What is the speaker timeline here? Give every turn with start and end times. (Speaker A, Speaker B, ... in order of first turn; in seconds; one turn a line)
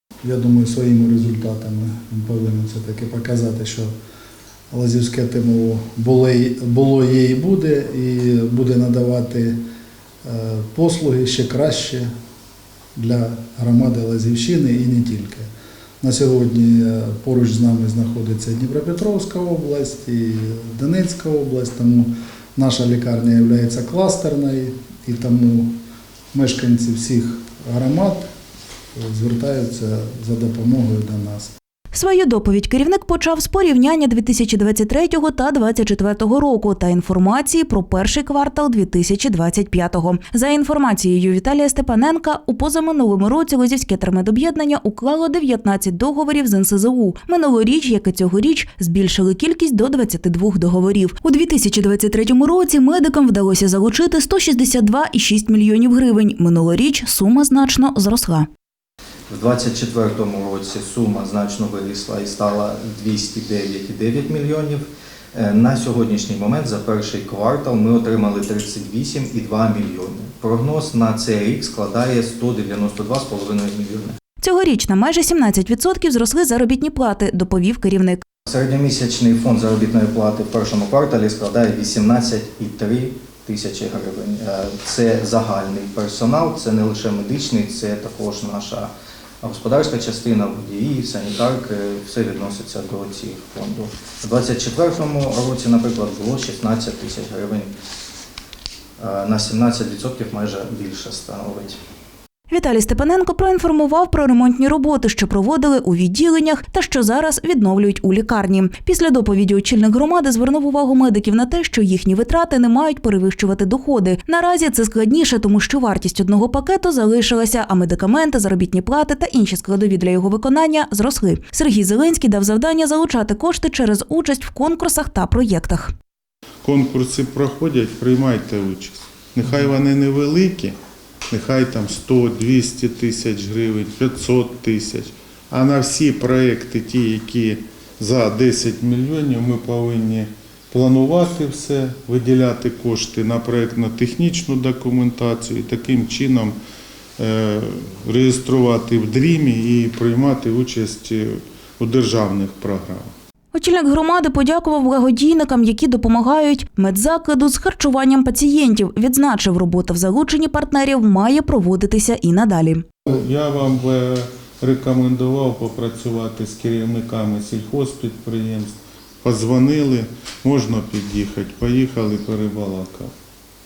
Speaker A: 0.2-3.9
Speaker A: 4.7-9.6
Speaker A: 10.2-12.1
Speaker A: 12.9-15.5
Speaker A: 16.0-25.8
Speaker A: 26.3-28.3
Speaker A: 29.0-31.5
Speaker B: 31.9-58.5
Speaker C: 59.3-64.8
Speaker C: 65.3-74.2
Speaker B: 74.4-78.2
Speaker C: 78.5-88.9
Speaker C: 89.4-97.7
Speaker C: 99.0-101.8
Speaker B: 102.5-125.9
Speaker D: 126.6-130.8
Speaker D: 131.3-146.6
Speaker D: 147.2-153.1
Speaker B: 153.5-162.8
Speaker D: 163.1-173.1